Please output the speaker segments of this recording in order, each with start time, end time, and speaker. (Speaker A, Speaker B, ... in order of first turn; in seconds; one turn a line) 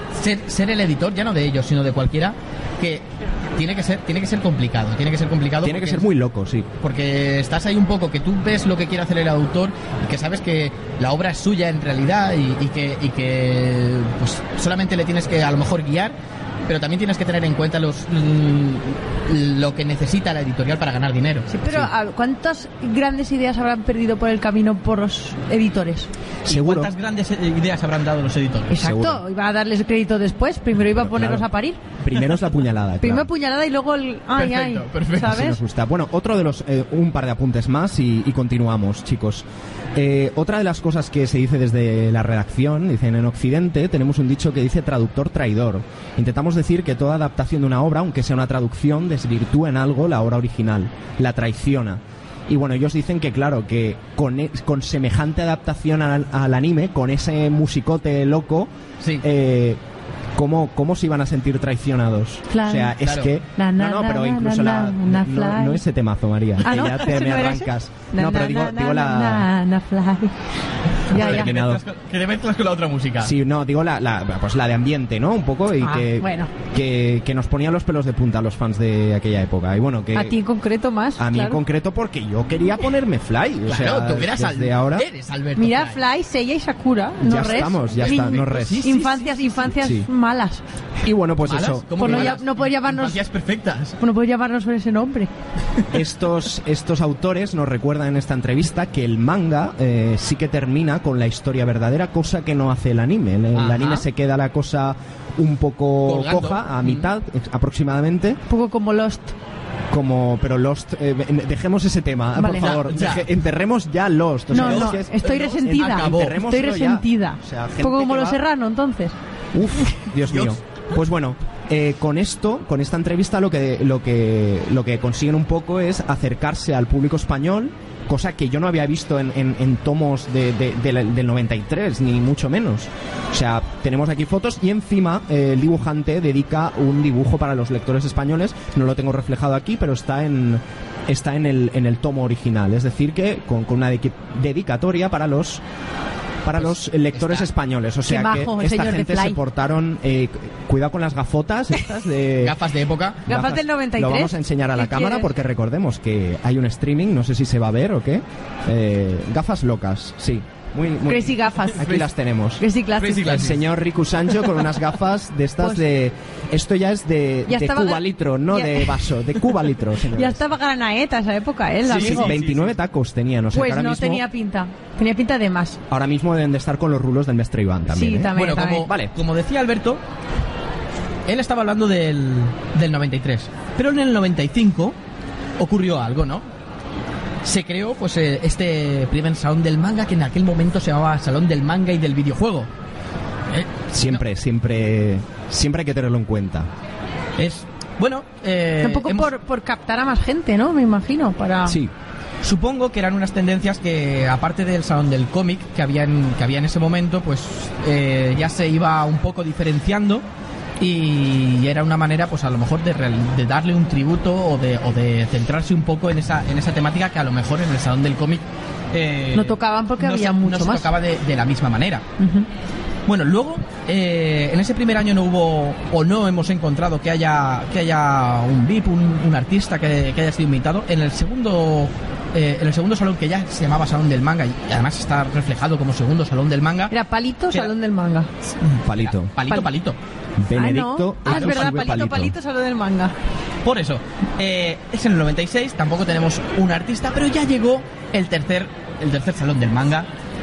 Speaker A: 0.1-6.1
Speaker B: 5.6-6.7
Speaker A: 6.8-16.1
Speaker A: 16.7-21.5
Speaker C: 21.5-26.1
Speaker A: 26.4-28.7
Speaker B: 26.5-26.9
Speaker C: 28.7-31.8
Speaker B: 28.8-29.2
Speaker B: 30.9-31.4
Speaker B: 32.0-33.3
Speaker C: 33.0-35.6
Speaker A: 34.3-35.4
Speaker B: 35.2-59.8
Speaker B: 60.4-69.5
Speaker C: 62.5-62.9
Speaker A: 63.0-63.3
Speaker C: 63.5-65.8
Speaker C: 66.6-70.3
Speaker C: 71.1-71.5
Speaker A: 71.1-73.3
Speaker B: 71.1-71.8
Speaker B: 73.2-80.4
Speaker C: 75.8-76.5
Speaker C: 80.1-81.6
Speaker B: 81.2-85.1
Speaker A: 83.7-86.0
Speaker C: 85.6-90.6
Speaker B: 87.2-88.9
Speaker A: 87.9-89.6
Speaker B: 89.7-90.1
Speaker B: 91.0-92.3
Speaker A: 91.4-94.0
Speaker C: 92.0-93.2
Speaker C: 94.0-95.3
Speaker B: 95.9-108.4
Speaker A: 103.5-104.0
Speaker A: 106.0-107.1
Speaker C: 108.5-109.3
Speaker B: 109.9-118.4
Speaker C: 112.3-112.7
Speaker A: 112.6-113.3
Speaker A: 114.5-116.4
Speaker C: 114.5-119.1
Speaker B: 119.5-145.6
Speaker A: 120.3-120.6
Speaker B: 146.4-152.6
Speaker A: 146.6-147.5
Speaker C: 148.1-149.4
Speaker A: 152.4-153.3
Speaker C: 153.3-155.3
Speaker B: 153.3-162.6
Speaker C: 161.1-161.9
Speaker A: 161.8-162.1
Speaker C: 162.6-163.5
Speaker A: 163.0-163.6
Speaker B: 163.2-170.4
Speaker C: 167.5-169.0
Speaker C: 170.1-172.3
Speaker A: 171.8-172.7
Speaker B: 171.9-174.2
Speaker C: 173.5-175.8
Speaker B: 175.9-179.1
Speaker C: 177.9-178.9
Speaker A: 178.3-180.0
Speaker A: 181.3-185.0
Speaker A: 185.6-186.4
Speaker A: 187.4-192.7
Speaker A: 193.5-194.2
Speaker B: 193.9-196.7
Speaker A: 197.4-199.3
Speaker C: 198.8-201.8
Speaker B: 201.7-201.9
Speaker A: 202.4-210.2
Speaker A: 210.8-222.0
Speaker C: 219.3-220.9
Speaker C: 222.2-222.5
Speaker A: 223.1-236.9
Speaker C: 236.9-238.3
Speaker A: 238.6-240.0
Speaker B: 238.8-239.3
Speaker B: 240.4-242.3
Speaker C: 240.5-243.1
Speaker A: 241.2-241.7
Speaker A: 243.6-250.1